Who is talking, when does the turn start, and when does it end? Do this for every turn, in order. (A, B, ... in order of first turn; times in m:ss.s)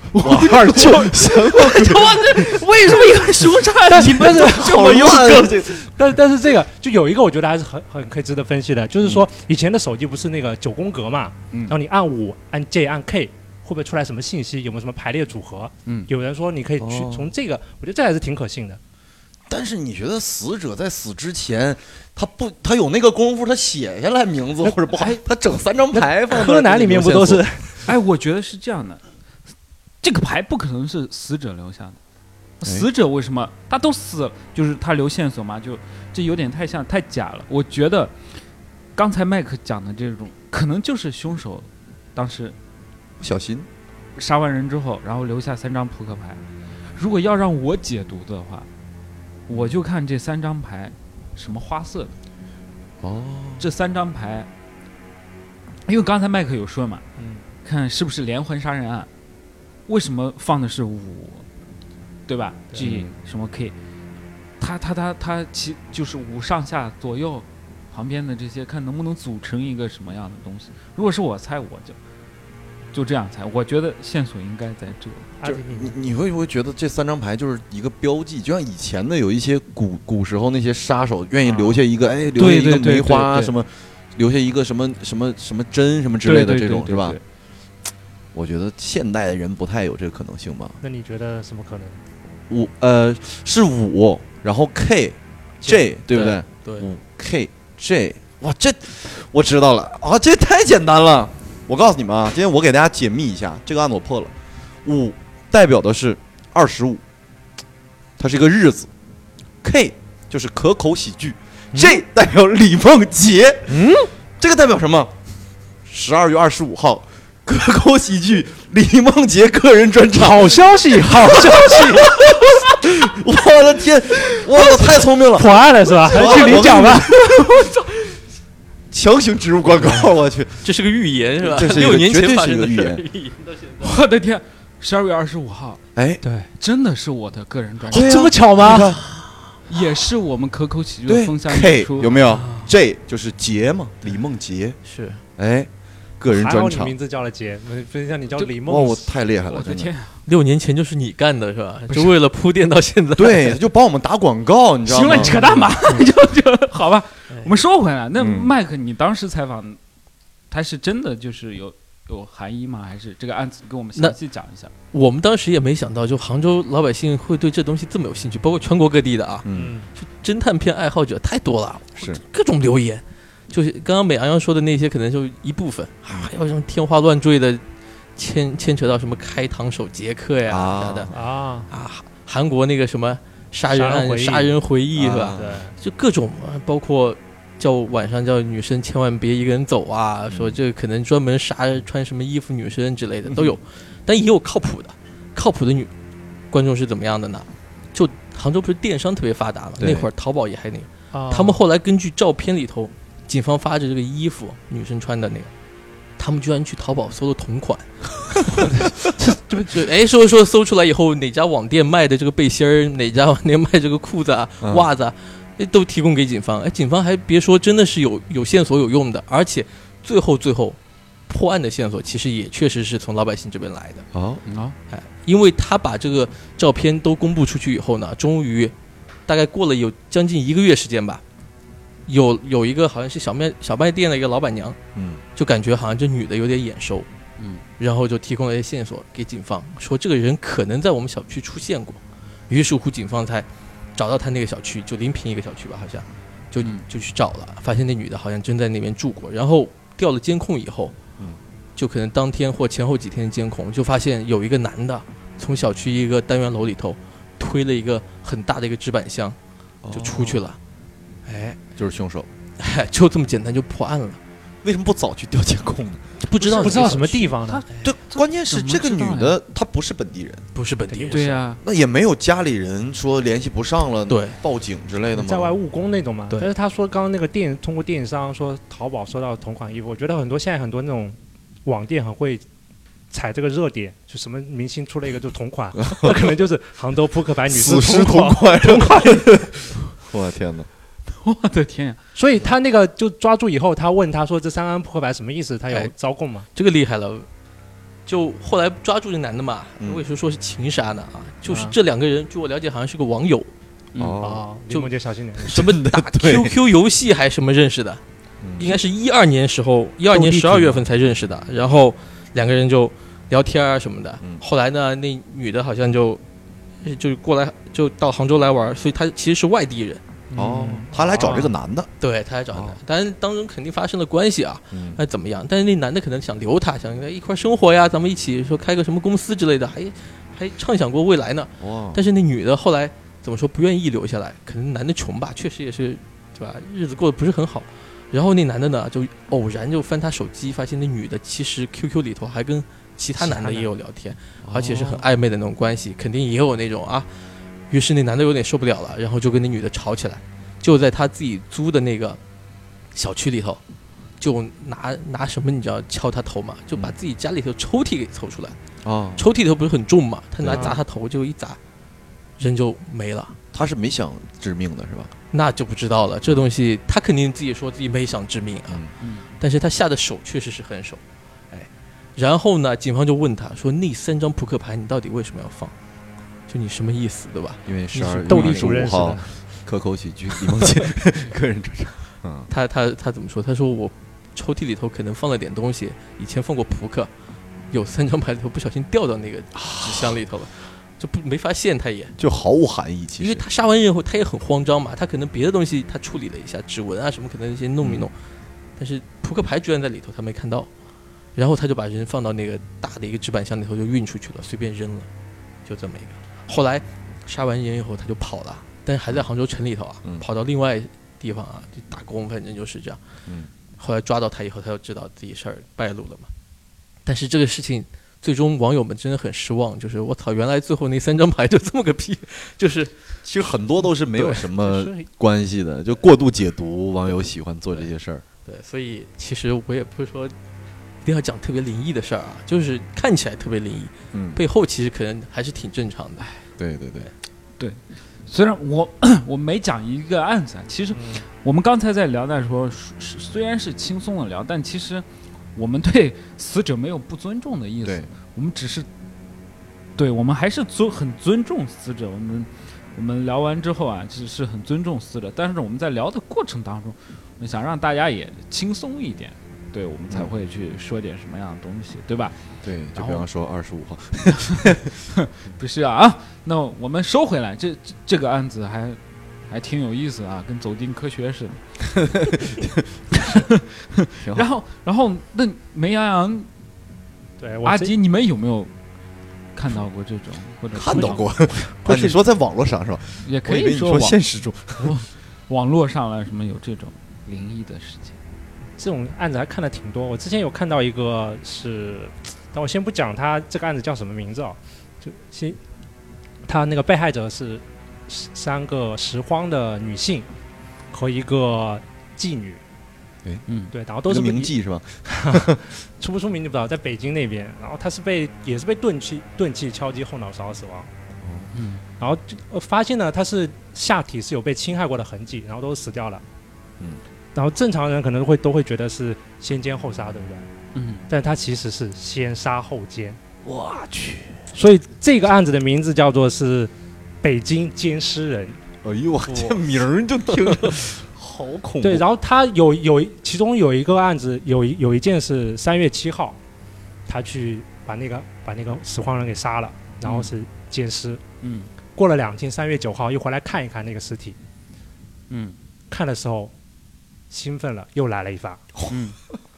0:00.1-0:05.6 A
0:00.2-0:02.5 B
0:03.9-0:04.8 C
0:04.3-0:05.9 B
0:05.4-0:18.8 C
0:09.0-0:09.3 B
0:16.8-0:17.3 B
0:19.5-0:27.6 B
0:25.9-0:27.9 C
0:27.8-0:29.0 A
0:30.0-0:32.0 A
0:32.6-0:38.2 A
0:39.0-0:42.6 A
0:43.2-0:43.7 B
0:44.2-0:46.4 A
0:47.0-0:48.7 A
0:49.5-0:52.1 A
0:49.5-0:49.8 B
0:53.0-0:53.7 B
0:53.6-0:54.5 A
0:55.9-0:57.0 A
0:57.2-0:57.4 C
0:57.6-0:59.1 A
0:59.9-1:01.5 A
1:02.3-1:03.8 A
1:02.8-1:03.1 B
1:04.6-1:12.0 A
1:12.9-1:15.3 A
1:15.4-1:16.0 C
1:15.4-1:27.2 B
1:21.4-1:21.8 C
1:22.4-1:23.5 A
1:26.2-1:27.2 A
1:28.3-1:30.8 B
1:30.8-1:32.0 C
1:32.5-1:47.0 B
1:36.1-1:36.9 D
1:48.2-1:48.9 B
1:49.6-1:53.8 B
1:51.7-1:52.0 C
1:53.7-1:54.1 C
1:54.4-1:55.1 B
1:55.9-2:07.6 B
2:00.2-2:02.2 C
2:05.3-2:07.1 C
2:06.2-2:07.8 A
2:08.9-2:10.6 B
2:10.6-2:14.0 D
2:11.4-2:13.0 B
2:13.8-2:15.8 A
2:16.0-2:16.2 B
2:16.2-2:16.5 C
2:16.6-2:18.3 A
2:17.9-2:19.0 B
2:17.9-2:19.0 C
2:19.7-2:22.2 A
2:21.1-2:24.8 B
2:22.3-2:22.7 D
2:24.8-2:25.2 D
2:25.4-2:27.0 B
2:26.3-2:29.1 C
2:28.6-2:29.9 B
2:29.5-2:30.2 A
2:30.2-2:33.6 D
2:33.2-2:35.4 B
2:34.9-2:39.8 A
2:35.2-2:35.6 C
2:38.2-2:38.5 B
2:40.5-2:44.7 A
2:44.9-2:57.6 D
2:49.4-2:49.8 B
2:49.6-2:49.9 C
2:58.2-3:01.1 D
3:00.5-3:01.1 B
3:01.1-3:01.7 C
3:01.7-3:15.9 D
3:03.7-3:05.8 C
3:05.1-3:05.6 B
3:10.3-3:10.6 B
3:16.5-3:25.5 D
3:19.8-3:20.1 B
3:21.1-3:21.6 C
3:26.2-3:28.7 D
3:29.2-3:29.8 C
3:29.6-3:44.1 D
3:34.6-3:34.9 B
3:44.1-3:44.4 B
3:44.5-3:44.8 A
3:44.9-3:48.7 D
3:49.3-3:51.2 D
3:52.1-3:54.8 D
3:55.0-3:55.2 B
3:55.4-3:57.1 D
3:57.4-3:57.6 A
3:57.8-4:11.0 D
4:06.6-4:06.9 A
4:11.8-4:19.4 D
4:19.8-4:20.5 B
4:19.9-4:20.6 D
4:21.2-4:21.6 D
4:21.8-4:22.3 B
4:22.6-4:24.2 D
4:24.6-4:27.0 B
4:26.2-4:27.8 D
4:26.4-4:27.6 C
4:27.4-4:29.4 A
4:27.8-4:30.5 B
4:30.5-4:31.4 D
4:30.9-4:31.4 C
4:31.1-4:31.6 A
4:31.6-4:35.6 B
4:34.1-4:34.4 D
4:35.1-4:42.4 C
4:43.1-4:49.5 C
4:45.8-4:46.2 B
4:47.5-4:50.7 B
4:51.1-4:52.0 A
4:52.2-4:56.5 C
4:56.5-4:57.3 D
4:58.1-5:03.5 D
5:01.5-5:01.8 C
5:03.9-5:04.2 A
5:04.0-5:04.5 B
5:04.2-5:05.6 C
5:05.4-5:06.5 B
5:05.4-5:08.0 D
5:08.4-5:08.8 B
5:08.6-5:16.2 D
5:10.1-5:10.8 C
5:16.8-5:20.0 D
5:20.3-5:21.5 C
5:20.4-5:21.9 B
5:22.0-5:47.1 D
5:22.5-5:22.8 B
5:24.7-5:25.0 B
5:31.6-5:32.0 B
5:43.2-5:43.7 C
5:44.4-5:45.0 B
5:47.7-5:52.2 D
5:52.9-5:53.6 D
5:54.2-5:58.6 D
5:58.8-5:59.2 B
5:59.2-6:01.6 D
6:00.4-6:00.8 B
6:00.5-6:00.8 C
6:02.4-6:03.4 D
6:03.5-6:05.1 B
6:05.3-6:08.8 D
6:09.0-6:09.2 A
6:09.4-6:15.7 D
6:16.5-6:18.9 D
6:17.7-6:22.5 B
6:18.0-6:19.4 C
6:22.5-6:27.1 D
6:27.7-6:32.2 D
6:29.6-6:30.2 B
6:32.2-6:33.4 B
6:33.2-6:38.1 D
6:37.8-6:38.1 B
6:38.8-6:40.7 D
6:41.4-6:45.1 D
6:45.7-6:53.0 D
6:53.8-6:56.3 D
6:57.1-7:03.0 D
7:03.2-7:08.2 B
7:04.2-7:04.4 D
7:04.6-7:05.1 C
7:08.4-7:10.4 D
7:11.0-7:16.2 D
7:14.1-7:14.4 B
7:16.6-7:17.1 B
7:17.6-7:25.0 A
7:20.9-7:21.2 C
7:25.6-7:28.9 A
7:30.0-7:42.4 A
7:42.6-7:44.9 B
7:43.0-7:43.2 A
7:44.4-7:51.6 A
7:52.0-7:52.8 B
7:53.2-7:56.5 A
7:54.2-7:54.5 B
7:57.4-7:58.0 C
7:57.6-7:58.7 A
7:59.5-8:01.3 A
8:00.7-8:05.0 B
8:00.9-8:01.3 C
8:01.8-8:02.2 A
8:03.2-8:04.2 A
8:04.8-8:08.2 A
8:08.8-8:15.6 C
8:16.5-8:20.3 C
8:20.9-8:22.6 C
8:23.5-8:23.8 A
8:23.7-8:24.5 C
8:24.0-8:25.7 B
8:25.0-8:30.9 C
8:31.2-8:31.5 B
8:31.5-8:31.8 A
8:32.0-8:36.2 C
8:37.4-8:40.5 C
8:40.7-8:41.1 A
8:41.1-8:43.2 C
8:43.4-8:44.4 B
8:44.5-8:48.6 C
8:48.8-8:52.0 B
8:51.8-8:56.4 C
8:57.0-9:01.2 C
9:00.0-9:00.3 A
9:01.4-9:01.7 A
9:02.0-9:04.4 C
9:05.3-9:05.6 A
9:05.9-9:06.5 C
9:07.3-9:08.6 C
9:08.9-9:09.2 A